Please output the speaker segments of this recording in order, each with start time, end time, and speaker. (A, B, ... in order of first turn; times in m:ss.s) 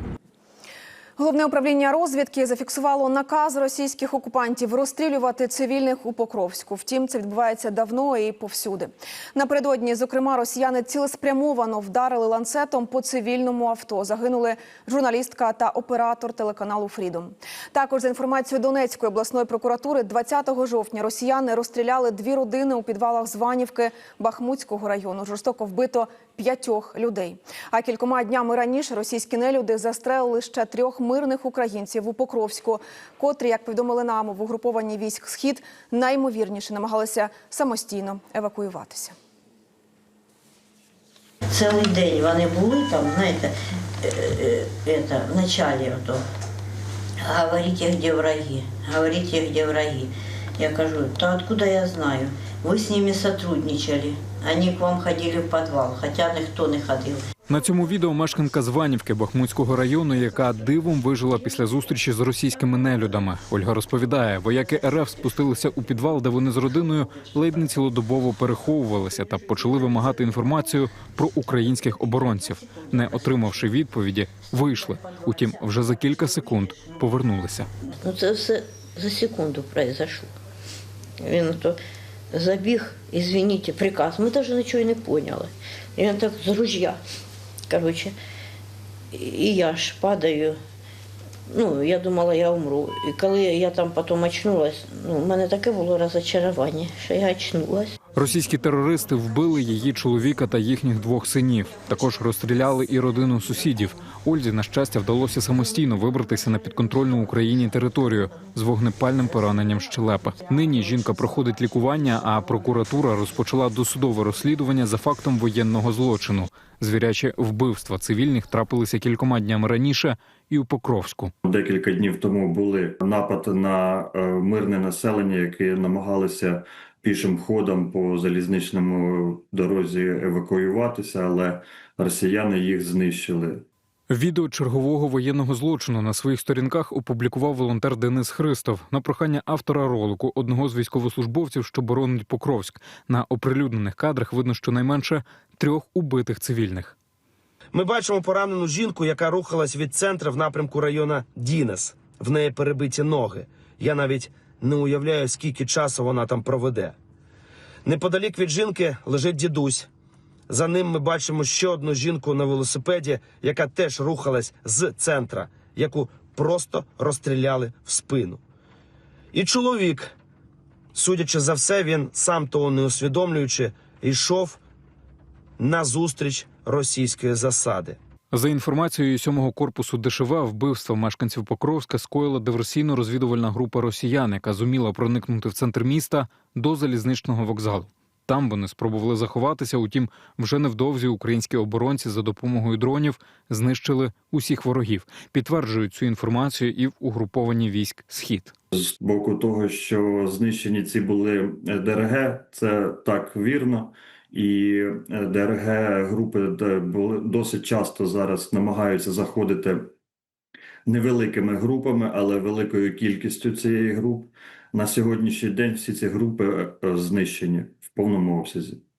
0:01.2-0:39.1 A
0:41.5-0:46.2 B
0:47.2-0:57.2 B
0:57.5-1:17.7 C
1:18.0-1:20.3 B
1:21.2-1:21.8 B
1:22.3-1:27.0 B
1:27.7-1:28.2 B
1:29.1-1:30.6 B
1:31.5-1:37.9 B
1:38.1-2:01.3 C
2:01.4-2:13.6 D
2:14.1-2:26.9 C
2:27.7-2:36.9 E
2:37.8-2:39.9 E
2:40.5-2:48.4 E
2:49.3-2:50.1 E
2:50.9-2:54.6 E
2:55.6-2:58.0 E
2:58.3-3:18.5 C
3:18.7-3:29.9 D
3:30.9-3:38.8 D